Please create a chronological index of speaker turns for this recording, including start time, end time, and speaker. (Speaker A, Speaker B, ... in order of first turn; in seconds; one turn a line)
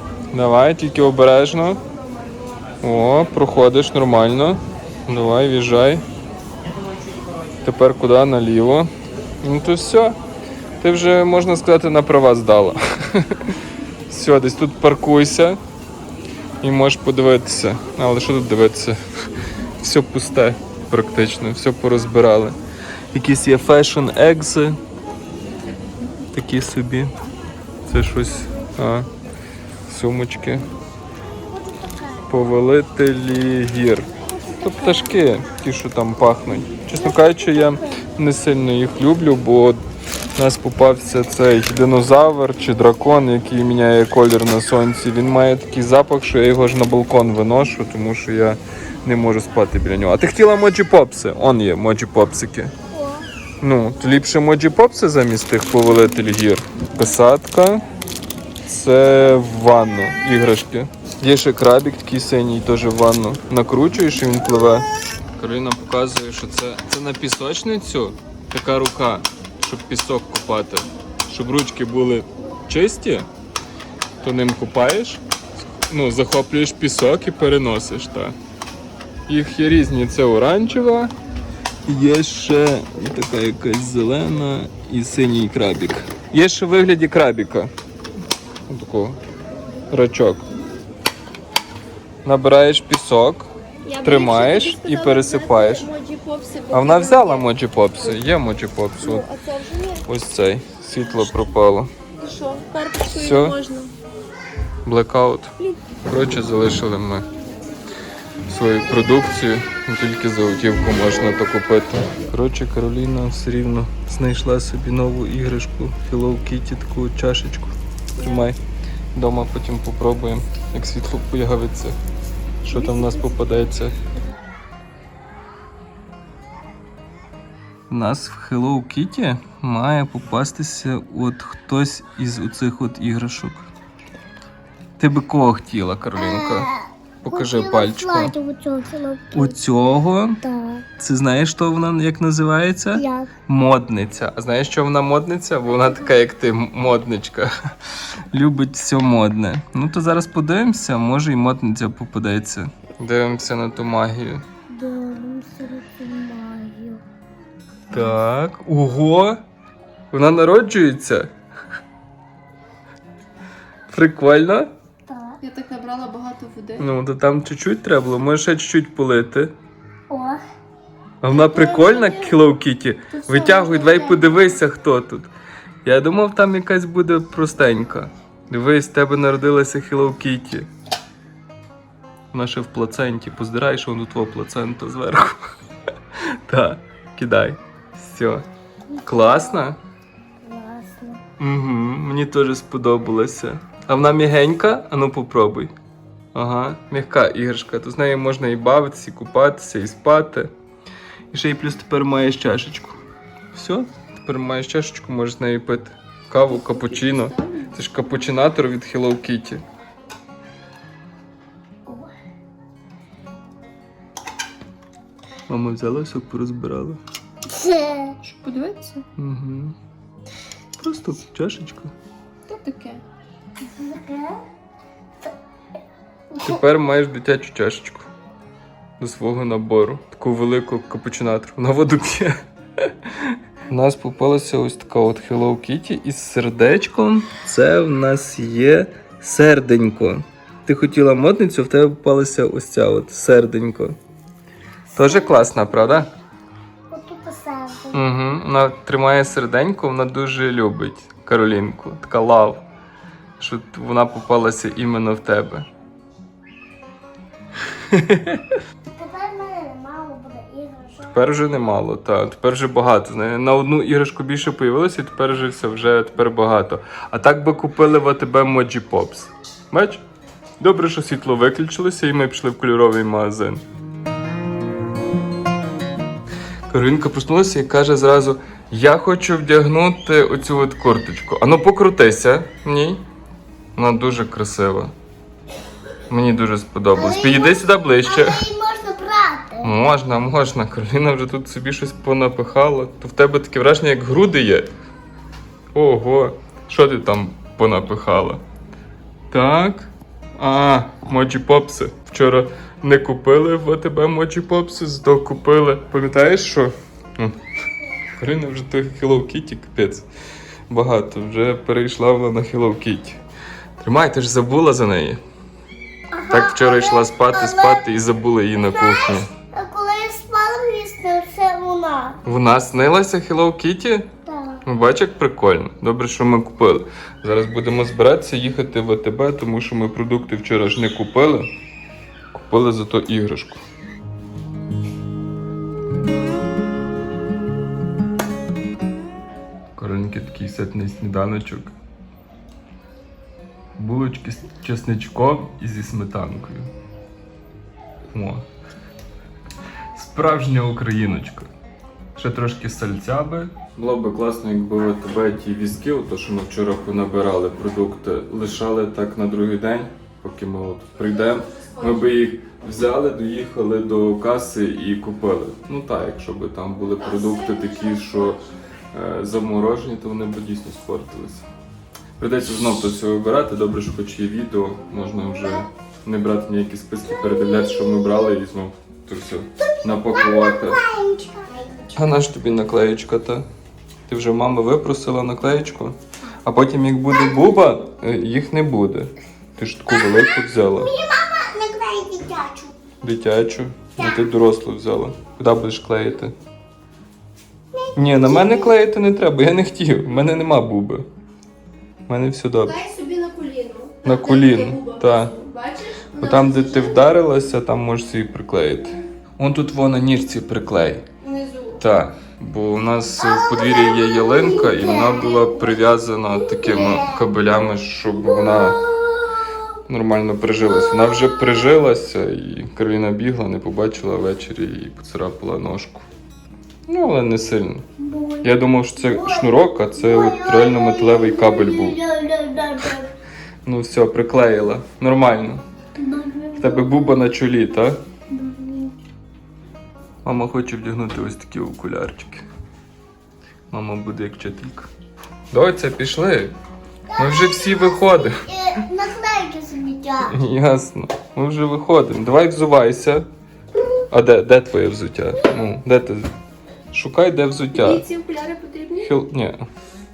Speaker A: 0.3-1.8
Speaker A: 2.8-6.0
Speaker A: 7.6-8.9
Speaker A: 9.4-10.2
Speaker A: 10.8-13.5
Speaker A: 14.1-15.6
Speaker A: 16.6-19.0
Speaker A: 19.8-22.6
Speaker A: 23.1-24.8
Speaker A: 26.3-27.2
Speaker A: 27.9-29.1
Speaker A: 29.9-30.7
Speaker B: 31.4-32.3
Speaker A: 32.3-34.1
Speaker B: 34.3-35.2
Speaker A: 34.6-39.8
Speaker B: 37.0-38.0
Speaker A: 40.4-52.7
Speaker B: 52.9-53.3
Speaker A: 53.6-57.9
Speaker A: 58.7-64.9
Speaker A: 65.4-73.3
Speaker A: 74.2-75.2
Speaker A: 75.8-78.4
Speaker A: 79.3-81.1
Speaker A: 81.9-87.7
Speaker A: 88.7-89.2
Speaker A: 89.9-90.5
Speaker A: 92.2-93.5
Speaker C: 93.8-98.2
Speaker A: 94.0-95.9
Speaker A: 96.7-99.2
Speaker C: 99.0-100.0
Speaker A: 100.1-101.9
Speaker C: 102.2-103.9
Speaker A: 103.1-103.6
Speaker A: 104.9-105.5
Speaker A: 106.0-107.3
Speaker A: 108.5-118.6
Speaker A: 119.2-122.0
Speaker A: 122.6-124.0
Speaker B: 122.8-123.2
Speaker A: 127.9-133.7
Speaker A: 135.0-136.7
Speaker B: 136.2-139.6
Speaker A: 137.2-138.3
Speaker A: 139.3-140.4
Speaker B: 140.4-140.9
Speaker A: 141.0-147.5
Speaker B: 142.9-143.3
Speaker A: 148.3-154.4
Speaker B: 154.7-157.0
Speaker A: 157.9-159.4
Speaker A: 160.1-161.3
Speaker A: 163.9-164.7
Speaker B: 165.1-165.4
Speaker C: 165.4-166.9
Speaker A: 166.8-169.5
Speaker B: 170.1-170.4
Speaker A: 171.2-175.3
Speaker B: 171.6-172.2
Speaker C: 173.1-174.5
Speaker A: 175.8-180.7
Speaker A: 182.3-185.4
Speaker A: 186.2-188.4
Speaker B: 188.9-189.6
Speaker A: 189.1-189.8
Speaker B: 190.4-191.2
Speaker A: 191.4-195.7
Speaker A: 196.3-200.5
Speaker A: 201.3-203.0
Speaker A: 203.5-209.6
Speaker C: 206.5-207.8
Speaker B: 211.8-212.1
Speaker A: 215.5-217.0
Speaker B: 217.5-218.2
Speaker C: 218.2-219.1
Speaker A: 219.2-219.8
Speaker A: 220.8-221.9
Speaker C: 222.5-223.0
Speaker B: 223.6-224.4
Speaker B: 226.3-226.6
Speaker A: 226.4-228.1
Speaker A: 229.0-244.0
Speaker A: 244.9-246.1
Speaker B: 245.0-245.4
Speaker B: 246.9-248.1
Speaker A: 247.9-252.6
Speaker A: 253.4-255.7
Speaker A: 257.7-258.4
Speaker B: 258.9-261.4
Speaker A: 261.1-270.0
Speaker A: 270.6-273.6
Speaker A: 276.7-283.1
Speaker A: 283.8-284.9
Speaker A: 286.1-288.5
Speaker B: 286.9-289.8
Speaker A: 289.6-294.7
Speaker A: 295.8-298.4
Speaker A: 299.3-307.4
Speaker A: 308.1-310.1
Speaker A: 310.7-313.2
Speaker A: 313.8-315.2
Speaker B: 316.1-317.9
Speaker A: 316.3-319.3
Speaker B: 318.6-322.2
Speaker A: 322.2-324.1
Speaker B: 324.3-324.6
Speaker A: 324.6-331.5
Speaker A: 332.3-333.6
Speaker A: 339.8-341.7
Speaker A: 343.8-346.7
Speaker A: 348.1-348.4
Speaker A: 349.9-351.5
Speaker A: 352.1-371.5
Speaker C: 361.1-362.1
Speaker B: 367.1-368.1
Speaker A: 372.2-380.8
Speaker B: 375.3-375.6
Speaker B: 377.1-378.4
Speaker B: 379.6-382.1
Speaker A: 382.0-383.5
Speaker A: 384.1-390.9
Speaker B: 387.2-387.6
Speaker B: 389.9-392.8
Speaker A: 393.0-396.4
Speaker B: 394.0-394.3
Speaker B: 397.7-398.8
Speaker A: 398.0-401.1
Speaker A: 402.1-402.8
Speaker C: 402.6-407.1
Speaker A: 404.0-405.3
Speaker A: 406.2-411.1
Speaker C: 411.2-411.8
Speaker A: 411.8-418.9
Speaker B: 413.2-415.8
Speaker B: 416.3-417.3
Speaker B: 418.2-419.6
Speaker A: 419.9-426.0
Speaker B: 420.6-421.8
Speaker A: 426.9-427.9
Speaker B: 428.0-433.1
Speaker A: 428.4-432.0
Speaker A: 433.6-435.6
Speaker B: 436.0-437.2
Speaker A: 436.6-438.0
Speaker B: 438.3-439.0
Speaker A: 440.2-442.4
Speaker A: 443.7-444.9
Speaker A: 445.5-446.5
Speaker B: 447.1-450.4
Speaker A: 447.2-448.4
Speaker A: 450.3-453.3
Speaker A: 454.1-456.3
Speaker A: 456.9-458.0
Speaker C: 457.7-459.1
Speaker A: 459.0-459.7